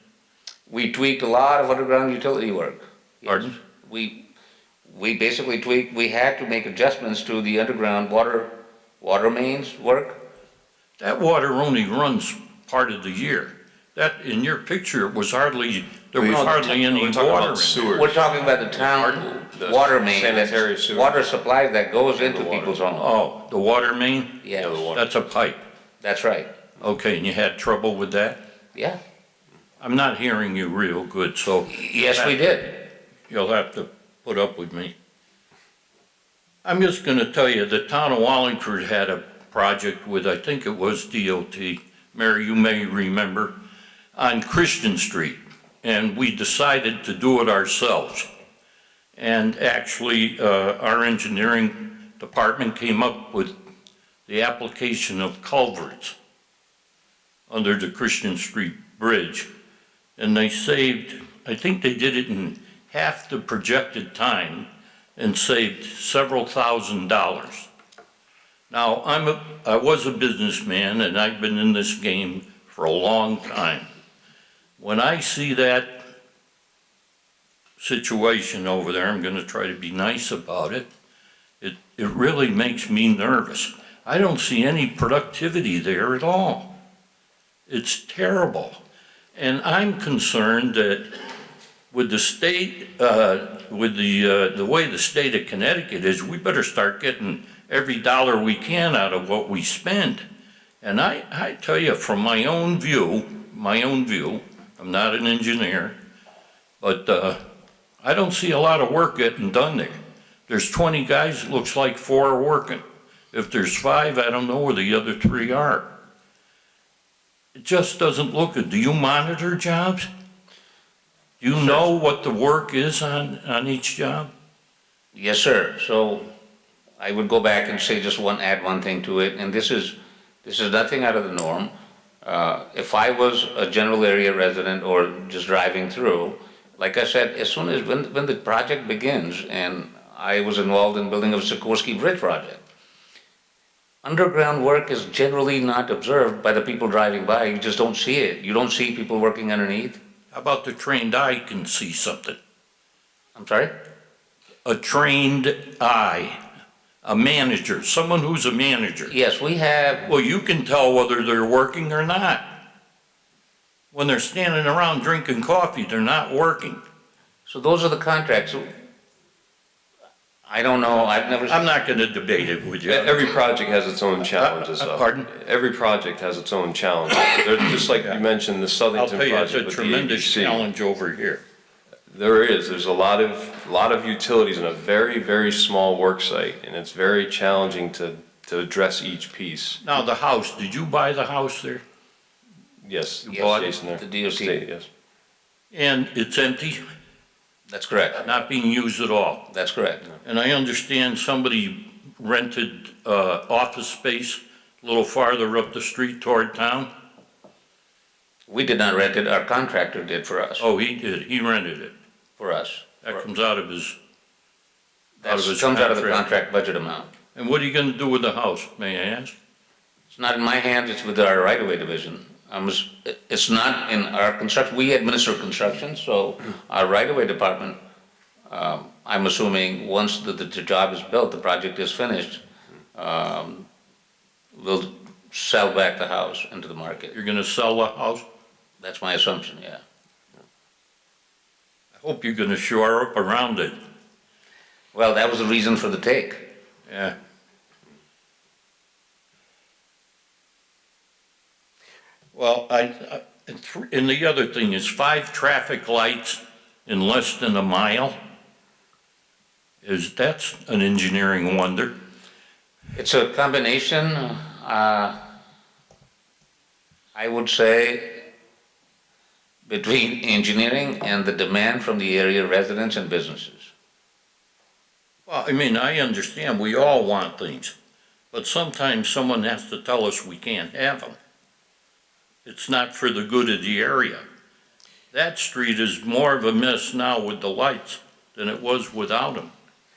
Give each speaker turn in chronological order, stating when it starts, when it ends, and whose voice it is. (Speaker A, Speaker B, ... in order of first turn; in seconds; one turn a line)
Speaker A: 0.7-4.2
Speaker A: 4.8-10.2
Speaker B: 11.0-18.0
Speaker C: 16.1-21.2
Speaker A: 17.9-23.1
Speaker C: 22.2-22.8
Speaker B: 23.0-25.6
Speaker A: 24.4-24.8
Speaker C: 24.6-25.0
Speaker A: 26.0-26.5
Speaker B: 26.8-28.4
Speaker B: 29.8-32.3
Speaker A: 31.7-32.9
Speaker B: 33.3-34.9
Speaker B: 36.6-43.6
Speaker B: 44.1-48.3
Speaker B: 49.2-53.5
Speaker B: 54.3-56.1
Speaker B: 57.5-59.5
Speaker B: 60.2-64.7
Speaker B: 65.2-67.7
Speaker B: 68.7-73.8
Speaker B: 74.8-76.0
Speaker B: 77.8-80.9
Speaker B: 81.6-86.8
Speaker B: 87.7-88.8
Speaker B: 89.3-91.2
Speaker B: 91.9-100.2
Speaker B: 100.8-106.0
Speaker B: 106.8-107.4
Speaker B: 108.0-110.0
Speaker B: 110.5-115.9
Speaker B: 117.5-120.1
Speaker B: 121.4-124.3
Speaker A: 121.5-121.8
Speaker A: 125.1-126.3
Speaker A: 127.0-131.7
Speaker A: 132.2-142.6
Speaker A: 144.0-150.0
Speaker B: 150.3-152.4
Speaker A: 153.3-153.7
Speaker B: 154.6-156.4
Speaker B: 157.0-159.1
Speaker A: 159.1-160.1
Speaker B: 160.0-162.7
Speaker B: 163.9-166.8
Speaker A: 167.5-168.7
Speaker A: 170.5-171.6
Speaker B: 171.5-173.2
Speaker C: 172.8-180.6
Speaker B: 174.4-175.3
Speaker B: 178.9-181.4
Speaker C: 182.1-189.8
Speaker B: 189.8-191.8
Speaker C: 192.8-194.9
Speaker A: 193.3-194.6
Speaker B: 195.7-196.8
Speaker A: 197.7-198.3
Speaker B: 198.2-199.5
Speaker A: 199.5-200.1
Speaker B: 200.2-206.9
Speaker A: 208.5-210.6
Speaker B: 210.6-211.9
Speaker A: 212.4-213.2
Speaker B: 213.0-213.9
Speaker A: 215.2-217.1
Speaker B: 215.2-216.2
Speaker B: 217.3-219.3
Speaker A: 220.1-227.8
Speaker A: 228.5-232.4
Speaker A: 232.9-233.7
Speaker A: 234.5-237.2
Speaker B: 237.1-238.2
Speaker A: 238.8-239.8
Speaker B: 242.0-243.7
Speaker A: 244.9-246.5
Speaker B: 246.9-247.1
Speaker B: 252.3-258.1
Speaker B: 259.8-261.9
Speaker A: 262.9-265.3
Speaker A: 267.1-268.3
Speaker A: 269.7-273.7
Speaker B: 275.3-277.7
Speaker B: 278.3-281.1
Speaker B: 282.4-284.2
Speaker B: 285.1-289.5